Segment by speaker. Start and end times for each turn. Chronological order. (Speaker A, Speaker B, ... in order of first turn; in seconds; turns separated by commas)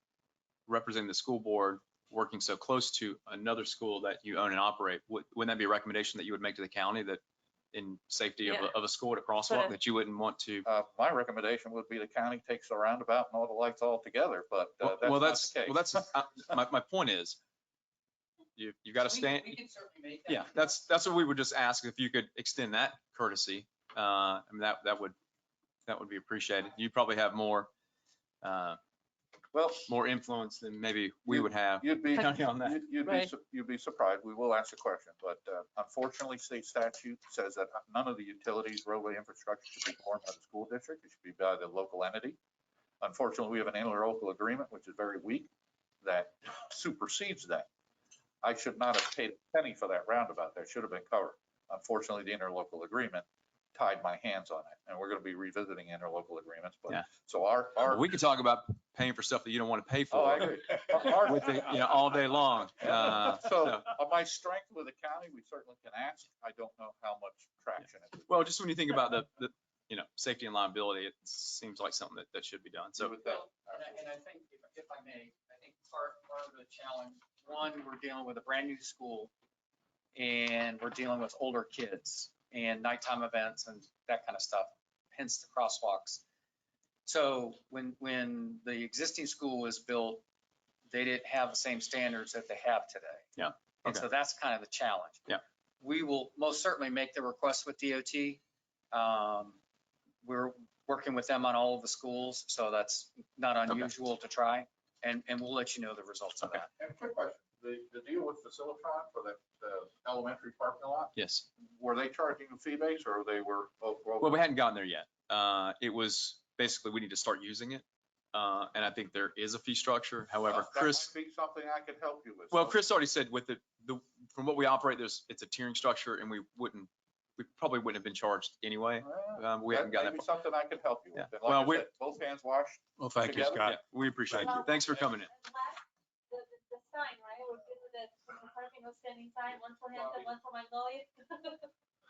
Speaker A: 0.7-7.2, Speaker A: 7.7-10.6, Speaker B: 8.4-8.7, Speaker B: 9.5-9.8, Speaker C: 10.6-15.9, Speaker A: 14.8-17.4, Speaker A: 18.6-19.6, Speaker D: 19.3-20.3, Speaker A: 20.3-25.1, Speaker A: 25.9-27.7, Speaker A: 28.4-28.8, Speaker C: 29.5-29.9, Speaker A: 29.9-32.8, Speaker C: 31.3-42.4, Speaker B: 33.0-33.3, Speaker C: 43.0-45.5, Speaker C: 46.0-47.6, Speaker C: 48.4-58.1, Speaker A: 57.8-63.9, Speaker C: 60.1-61.9, Speaker C: 62.8-68.4, Speaker A: 68.3-73.1, Speaker C: 73.0-73.9, Speaker D: 73.2-79.3, Speaker D: 80.1-86.2, Speaker D: 87.0-90.2, Speaker D: 90.9-93.2, Speaker A: 93.4-94.0, Speaker D: 93.8-98.4, Speaker D: 98.9-99.6, Speaker D: 100.2-106.7, Speaker C: 106.4-114.4, Speaker A: 111.2-111.5, Speaker A: 114.2-121.1, Speaker C: 120.5-122.8, Speaker A: 122.5-130.2, Speaker C: 129.0-133.7, Speaker A: 131.1-131.9, Speaker A: 133.6-135.3, Speaker B: 134.4-141.7, Speaker C: 139.9-140.3